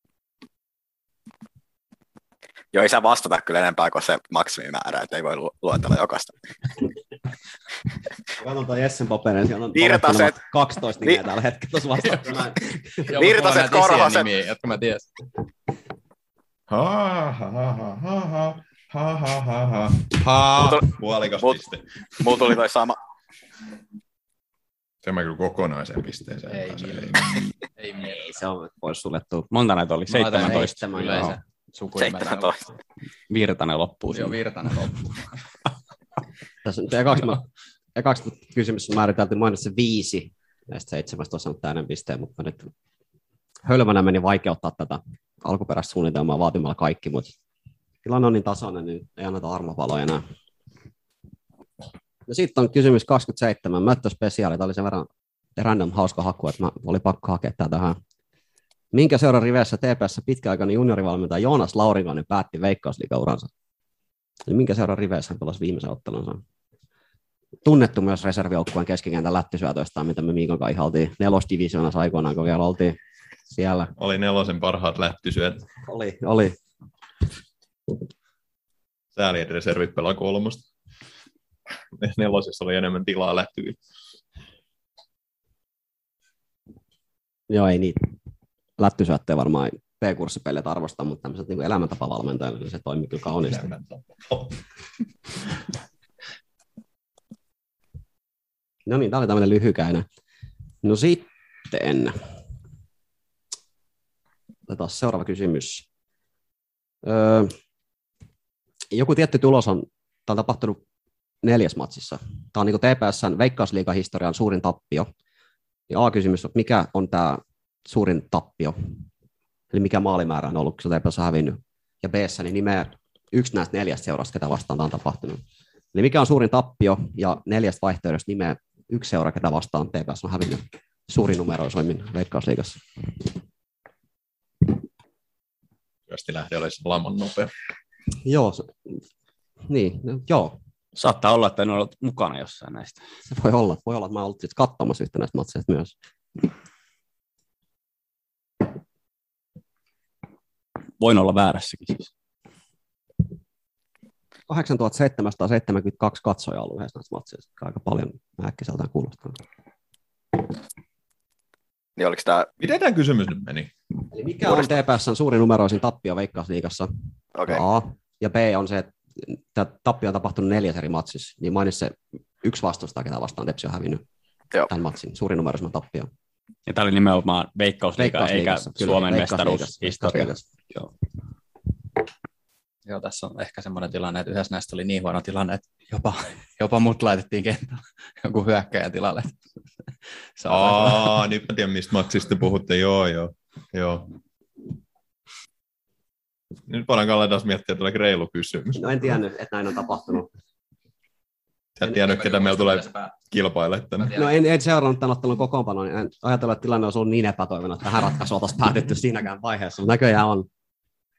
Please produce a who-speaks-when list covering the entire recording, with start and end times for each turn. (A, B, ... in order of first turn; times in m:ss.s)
0:02.7-0:06.3 A
0:08.4-0:13.1 B
0:09.8-0:10.4 A
0:13.1-0:15.1 C
0:13.1-0:14.3 A
0:16.7-0:21.8 D
0:20.6-0:20.9 A
0:22.2-0:23.0 A
0:25.0-0:27.5 D
0:26.5-0:27.2 C
0:27.8-0:28.3 C
0:28.1-0:29.5 B
0:29.5-0:31.4 E
0:30.1-0:32.5 C
0:30.5-0:31.4 B
0:32.0-0:32.6 A
0:33.3-0:34.4 E
0:34.1-0:35.4 C
0:36.6-0:42.7 B
0:43.6-0:47.3 B
0:48.0-0:50.2 B
0:52.3-0:58.0 B
0:58.9-1:03.5 B
1:04.5-1:06.4 B
1:07.6-1:13.0 B
1:13.5-1:13.9 B
1:14.0-1:15.6 D
1:15.8-1:16.6 B
1:19.2-1:20.7 D
1:22.0-1:23.8 D
1:27.5-1:28.1 B
1:28.8-1:33.7 B
1:33.5-1:34.6 D
1:38.9-1:40.1 B
1:40.8-1:42.3 B
1:44.7-1:45.9 B
1:47.0-1:47.5 B
1:48.9-1:50.8 B
1:51.4-1:55.1 B
1:55.9-1:58.8 B
1:59.7-2:05.4 B
2:05.9-2:12.8 B
2:16.1-2:17.5 D
2:18.2-2:19.0 B
2:19.7-2:20.6 B
2:21.0-2:23.0 E
2:23.3-2:25.9 B
2:31.0-2:32.1 E
2:34.5-2:39.4 B
2:42.0-2:42.5 A
2:42.6-2:43.7 D
2:44.1-2:46.9 B
2:47.4-2:47.6 A
2:47.5-2:54.0 B
2:54.7-2:56.1 B
2:56.7-3:00.9 E
2:58.0-3:00.4 B
3:02.8-3:09.4 C
3:10.4-3:11.3 C
3:10.5-3:14.1 D
3:16.7-3:19.2 D
3:18.8-3:20.3 B
3:21.8-3:24.2 D
3:21.9-3:23.1 C
3:24.0-3:24.3 C
3:24.2-3:30.5 B